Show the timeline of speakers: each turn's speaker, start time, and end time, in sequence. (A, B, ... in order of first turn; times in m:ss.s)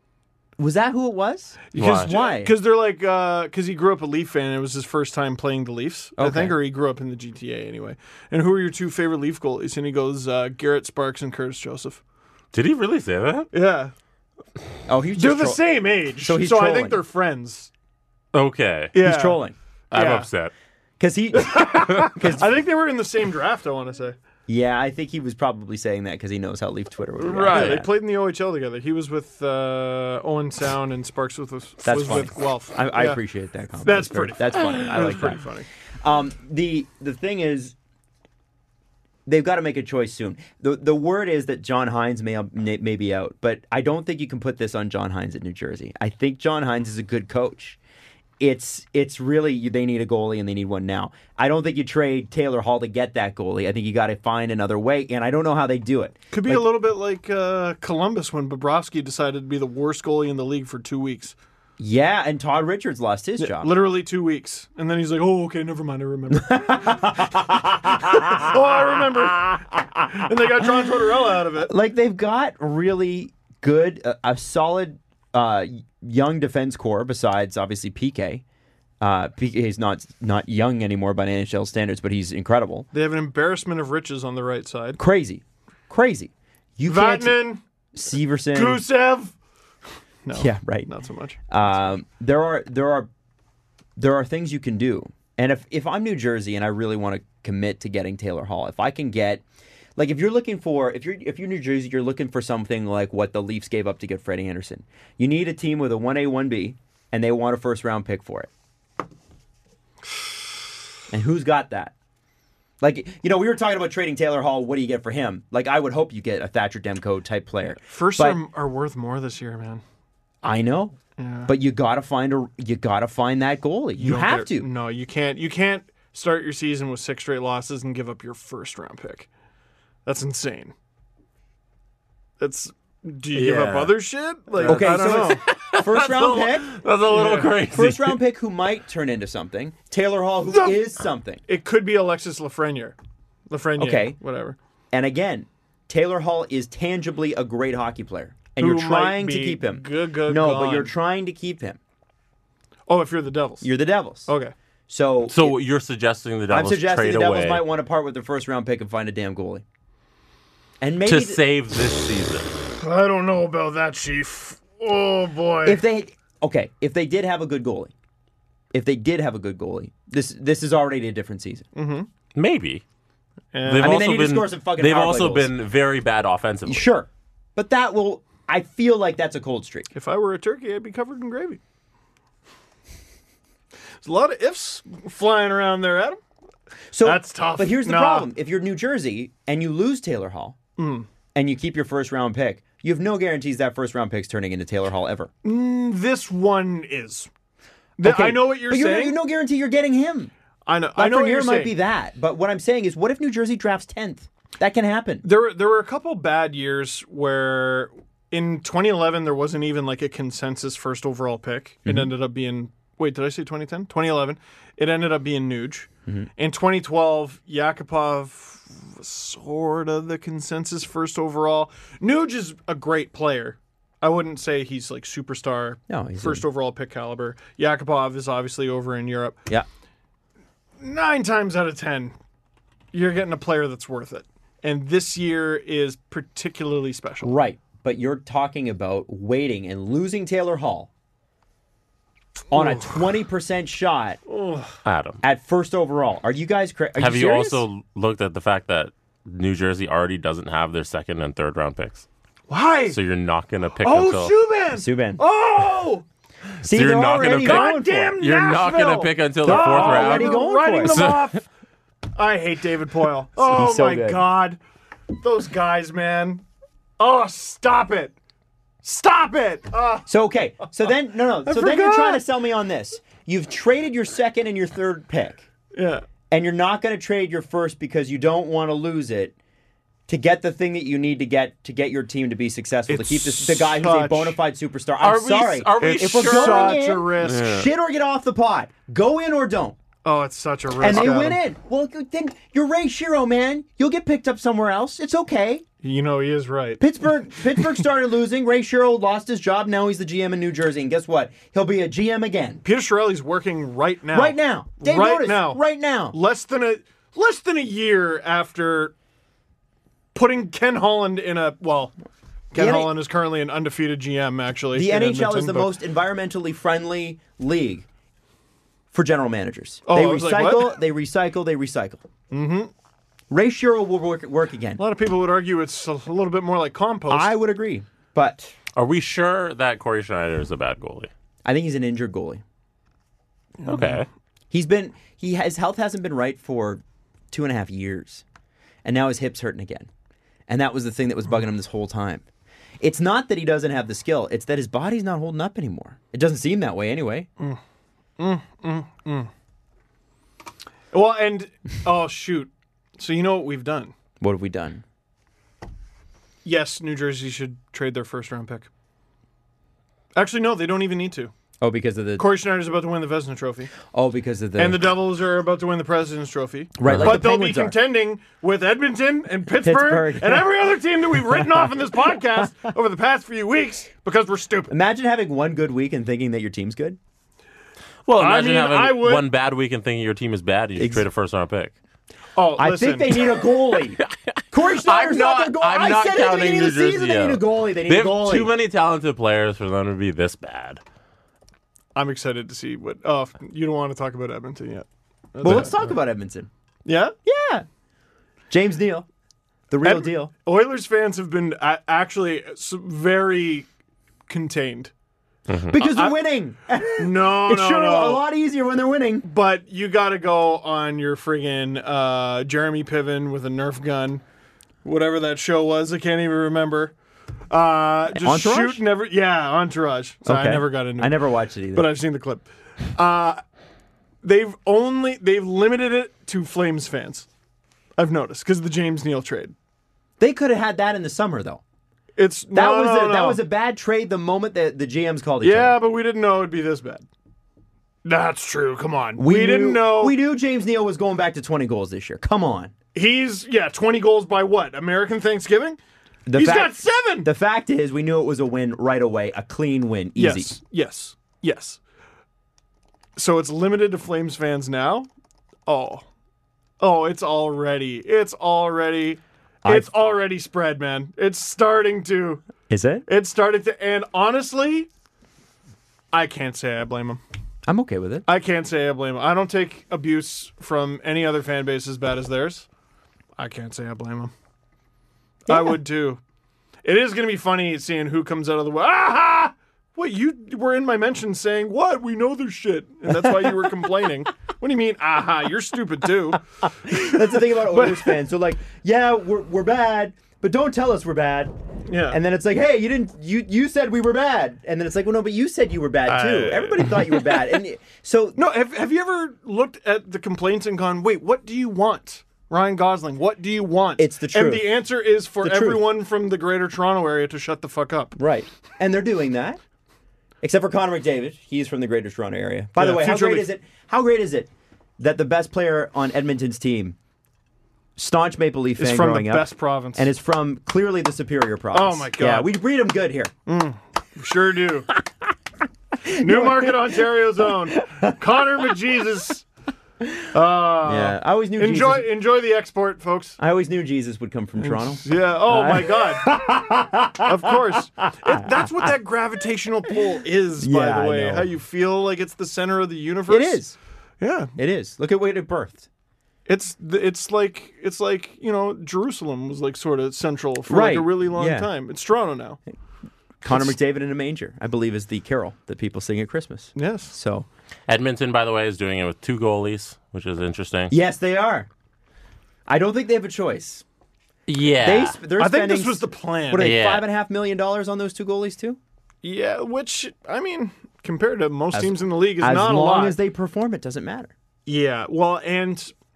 0:00.6-0:02.5 A
0:01.7-0:12.0 B
0:01.8-0:02.1 C
0:06.2-0:06.5 A
0:12.5-0:13.5 C
0:13.5-0:13.9 B
0:14.9-0:15.6 A
0:15.2-0:17.7 B
0:16.2-0:17.0 A
0:18.3-0:18.9 C
0:18.9-0:19.4 B
0:19.0-0:19.5 A
0:19.9-0:20.3 B
0:19.9-0:20.5 C
0:21.0-0:22.5 A
0:21.4-0:24.2 B
0:24.5-0:27.9 A
0:27.2-0:33.2 B
0:27.3-0:27.8 C
0:31.8-0:35.4 A
0:33.8-0:35.7 B
0:36.0-0:37.7 A
0:39.2-0:47.8 A
0:48.4-0:56.6 A
0:56.3-1:01.4 B
1:01.8-1:03.7 A
1:03.4-1:07.2 B
1:06.3-1:10.0 A
1:07.9-1:11.7 B
1:11.6-1:18.4 A
1:19.0-1:22.9 A
1:22.9-1:25.0 B
1:25.0-1:28.8 A
1:26.8-1:27.6 B
1:28.5-1:29.3 B
1:30.2-1:31.4 B
1:30.3-1:30.9 A
1:31.5-1:33.1 A
1:34.0-1:39.4 A
1:40.0-1:48.5 A
1:51.1-1:51.9 A
1:52.8-1:58.4 A
1:57.8-1:59.8 B
2:00.4-2:04.7 A
2:01.2-2:01.5 B
2:04.0-2:09.3 B
2:10.0-2:10.7 B
2:12.4-2:15.4 B
2:13.3-2:13.9 C
2:14.6-2:18.2 C
2:14.6-2:16.7 A
2:17.1-2:17.7 B
2:17.7-2:21.4 A
2:20.5-2:20.9 B
2:21.4-2:23.0 B
2:23.5-2:24.6 B
2:23.8-2:24.2 A
2:24.9-2:31.8 A
2:28.6-2:30.9 B
2:32.9-2:33.7 B
2:33.6-2:34.3 A
2:34.2-2:34.5 B
2:34.9-2:35.6 A
2:35.3-2:37.6 C
2:36.5-2:39.6 A
2:40.8-2:41.4 A
2:41.0-2:42.5 C
2:42.8-2:45.8 B
2:45.6-2:47.9 A
2:48.7-2:51.6 A
2:51.7-2:52.1 B
2:52.3-2:52.8 C
2:53.5-2:54.0 B
2:53.6-2:56.9 C
2:53.8-2:55.5 A
2:56.6-2:59.9 A
2:59.9-3:01.6 B
3:04.0-3:06.2 B
3:06.9-3:10.6 A
3:07.0-3:08.3 B
3:10.8-3:11.1 B
3:11.3-3:15.3 A
3:15.4-3:17.3 B
3:18.0-3:19.2 B
3:18.0-3:20.3 A
3:20.6-3:21.7 B
3:21.0-3:25.2 A
3:25.2-3:49.4 B
3:45.9-3:46.4 A
3:50.8-3:52.1 B
3:52.9-3:57.4 B
3:57.2-4:00.9 A
4:02.5-4:04.2 A
4:02.5-4:03.0 B
4:04.3-4:04.8 B
4:04.8-4:05.2 C
4:05.2-4:07.6 A
4:07.0-4:12.1 C
4:12.5-4:13.0 B
4:12.9-4:14.3 C
4:13.8-4:16.0 B
4:14.7-4:15.2 A
4:16.6-4:21.3 C
4:16.6-4:18.2 A
4:17.4-4:21.4 B
4:19.4-4:21.1 A
4:22.1-4:24.6 B
4:23.4-4:24.2 A
4:25.1-4:26.4 B
4:27.0-4:28.1 B
4:28.8-4:30.1 B
4:30.0-4:35.4 A
4:31.4-4:32.2 B
4:35.7-4:36.0 B
4:36.3-4:39.3 A
4:40.1-4:49.8 A
4:42.9-4:44.4 B
4:45.0-4:47.7 C
4:45.8-4:47.5 B
4:50.0-4:51.4 B
4:50.8-4:55.6 A
4:55.8-4:56.9 B
4:56.8-5:02.6 A
5:02.6-5:08.9 B
5:04.1-5:06.1 A
5:10.1-5:11.9 B
5:12.5-5:15.7 B
5:12.5-5:12.9 A
5:14.7-5:17.8 A
5:18.9-5:22.0 A
5:19.8-5:20.8 B
5:22.3-5:22.7 B
5:23.3-5:24.8 A
5:24.8-5:27.3 B
5:27.1-5:28.5 A
5:28.8-5:31.1 C
5:31.4-5:32.4 A
5:33.6-5:34.0 B
5:33.6-5:34.0 C
5:34.5-5:38.2 A
5:38.8-5:39.9 A
5:40.5-5:42.2 A
5:42.8-5:47.3 A
5:48.2-5:49.3 B
5:50.9-5:53.9 B
5:54.2-5:54.8 A
5:56.4-5:58.7 B
6:00.1-6:01.3 B
6:01.6-6:02.3 A
6:02.2-6:03.7 B
6:03.9-6:04.8 A
6:04.6-6:14.7 B
6:06.8-6:07.8 A
6:06.8-6:07.2 C
6:09.6-6:10.5 A
6:11.3-6:11.6 A
6:14.7-6:17.0 A
6:18.0-6:21.7 C
6:18.2-6:19.3 B
6:20.8-6:21.0 A
6:22.4-6:23.1 B
6:22.6-6:28.5 A
6:24.0-6:30.8 C
6:31.9-6:35.8 B
6:35.4-6:36.5 A
6:36.8-6:37.1 B
6:37.2-6:37.6 A
6:38.5-6:39.1 A
6:39.7-6:40.3 A
6:39.8-6:43.7 B
6:44.3-6:44.9 B
6:45.5-6:45.7 C
6:45.7-6:49.2 A
6:45.8-6:46.2 B
6:47.0-6:48.2 B
6:49.2-6:54.2 B
6:54.8-6:56.9 B
6:57.5-7:01.2 B
6:58.1-6:58.8 A
7:00.2-7:01.9 A
7:01.7-7:03.4 B
7:04.2-7:07.3 B
7:08.0-7:09.5 B
7:10.2-7:11.6 A
7:12.2-7:13.4 B
7:12.5-7:15.7 A
7:15.4-7:17.0 B
7:18.0-7:20.2 B
7:19.2-7:22.7 A
7:22.9-7:25.8 B
7:26.3-7:30.5 A
7:26.3-7:27.3 B
7:30.2-7:31.8 B
7:33.2-7:35.1 B
7:35.6-7:36.1 B
7:36.8-7:42.4 B
7:39.6-7:39.9 A
7:42.7-7:43.0 A
7:43.1-7:44.9 B
7:46.1-7:47.2 B
7:47.6-7:48.3 A
7:48.2-7:52.7 B
7:53.4-7:54.3 B
7:55.5-7:55.8 A
7:55.5-7:56.2 B
7:56.8-8:08.1 B
8:03.1-8:03.7 A
8:06.8-8:11.5 A
8:11.9-8:12.2 B
8:12.1-8:18.4 A
8:16.0-8:17.4 B
8:18.4-8:28.1 B
8:24.0-8:24.7 A
8:25.4-8:25.8 A
8:28.2-8:29.6 A
8:30.4-8:37.0 A
8:32.8-8:33.5 B
8:38.0-8:43.3 A
8:38.8-8:40.1 B
8:41.7-8:42.5 B
8:43.4-8:44.9 B
8:46.0-8:46.9 A
8:46.1-8:49.4 B
8:47.7-8:48.1 A
8:50.3-8:53.4 B
8:50.8-8:52.1 A
8:53.4-8:58.9 A
8:54.6-8:56.4 B
8:57.2-9:03.6 B
9:00.6-9:01.5 A
9:03.3-9:03.8 A
9:04.2-9:04.5 B
9:04.6-9:05.9 A
9:06.4-9:12.6 B
9:10.7-9:11.7 A
9:13.4-9:17.5 A
9:16.7-9:17.1 B
9:17.9-9:20.9 C
9:20.9-9:21.7 A
9:22.7-9:23.8 A
9:24.5-9:25.2 C
9:24.8-9:28.8 A
9:25.4-9:26.7 B
9:26.6-9:27.0 C
9:29.2-9:33.2 B
9:31.7-9:34.3 A
9:34.6-9:35.9 B